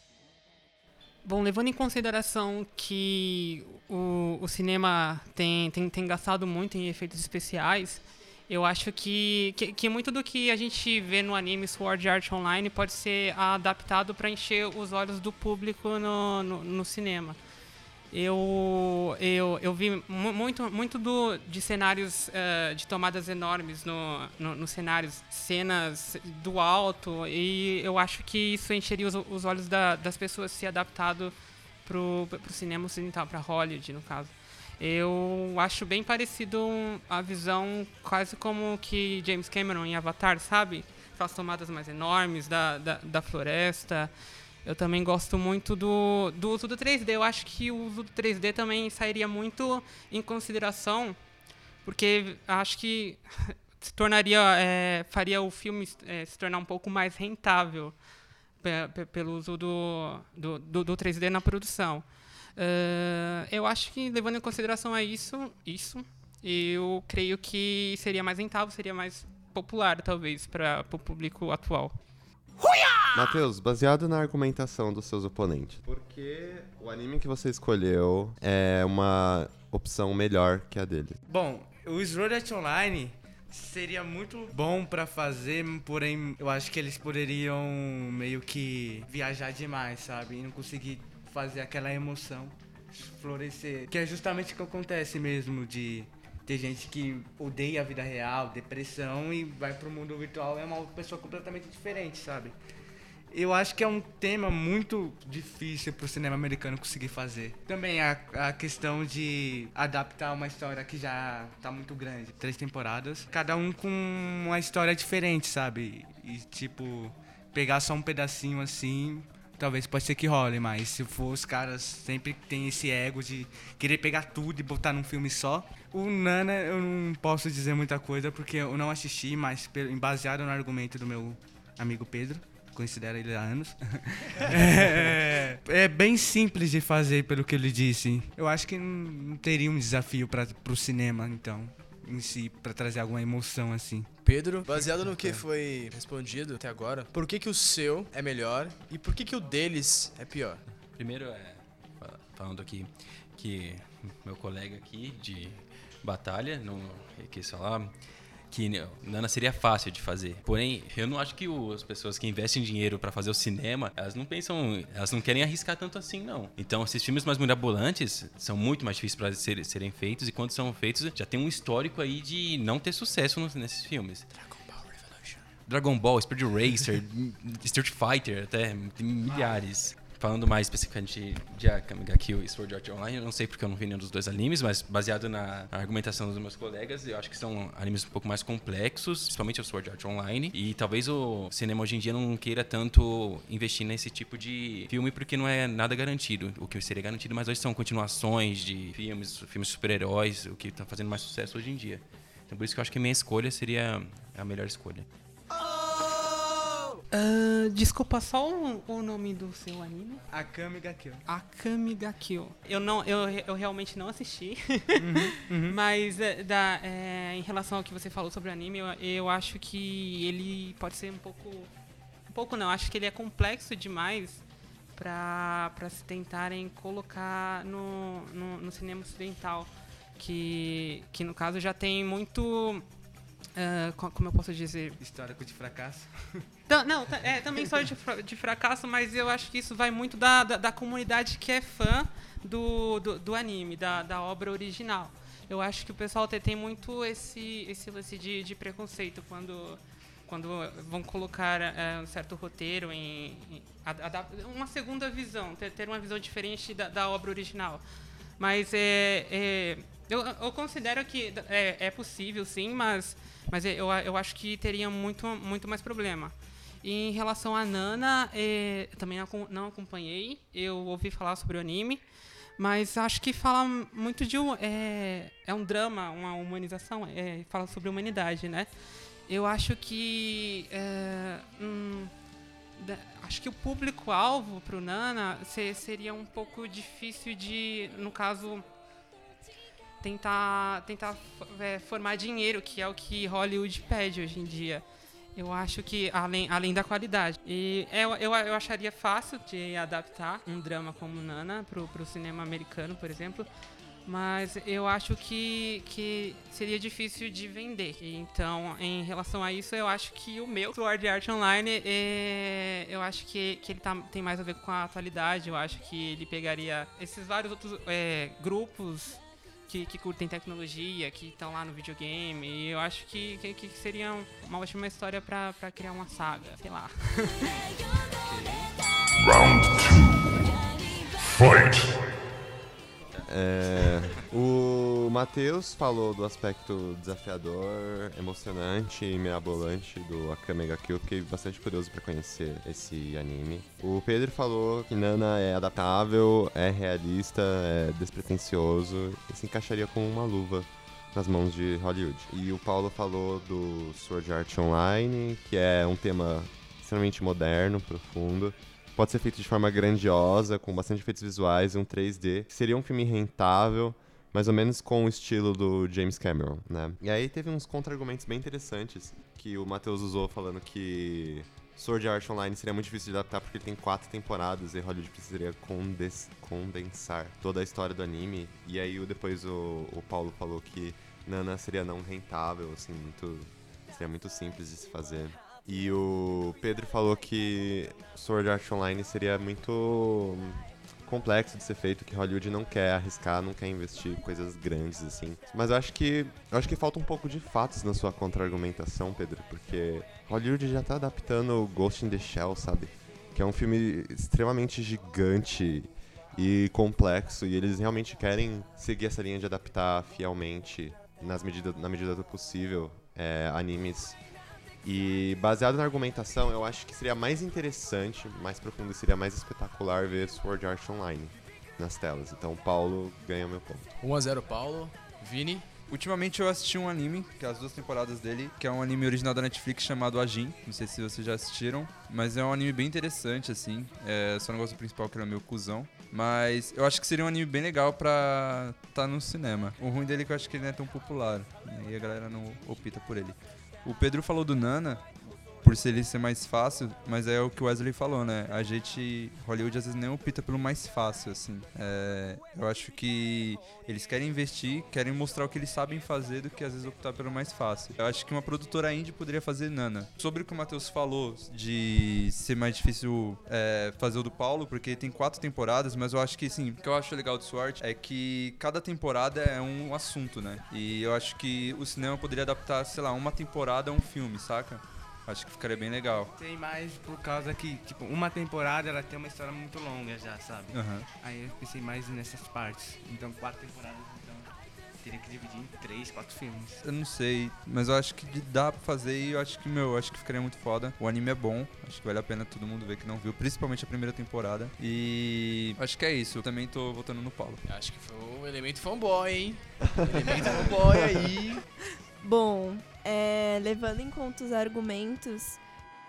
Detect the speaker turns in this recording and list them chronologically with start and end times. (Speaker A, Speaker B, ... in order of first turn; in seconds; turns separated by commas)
Speaker A: 1.2-17.4, Speaker A: 18.1-44.1, Speaker A: 44.6-51.2, Speaker A: 51.8-58.0, Speaker A: 58.6-72.0, Speaker B: 73.1-81.2, Speaker C: 81.3-102.5, Speaker C: 103.3-144.1, Speaker D: 144.2-150.6, Speaker E: 150.9-157.9, Speaker E: 158.5-174.3, Speaker D: 174.3-175.4, Speaker E: 175.7-205.1, Speaker A: 207.1-210.2, Speaker C: 210.3-211.2, Speaker A: 211.2-221.7, Speaker C: 215.0-215.8, Speaker A: 222.3-224.4, Speaker A: 224.9-232.8, Speaker A: 233.6-235.0, Speaker C: 235.0-236.4, Speaker A: 236.7-257.8, Speaker A: 258.4-272.0, Speaker A: 272.6-278.7, Speaker A: 279.3-282.1, Speaker A: 282.8-288.6, Speaker A: 290.0-294.8, Speaker A: 295.3-303.5, Speaker A: 304.0-327.7, Speaker D: 328.3-328.6, Speaker F: 329.2-330.6, Speaker F: 331.2-332.1, Speaker B: 333.2-414.2, Speaker B: 414.8-423.9, Speaker D: 424.0-425.7, Speaker G: 425.9-476.3, Speaker C: 476.4-486.8, Speaker G: 480.7-481.1, Speaker G: 486.8-497.6, Speaker D: 497.6-501.6, Speaker B: 499.9-501.3, Speaker H: 502.2-505.6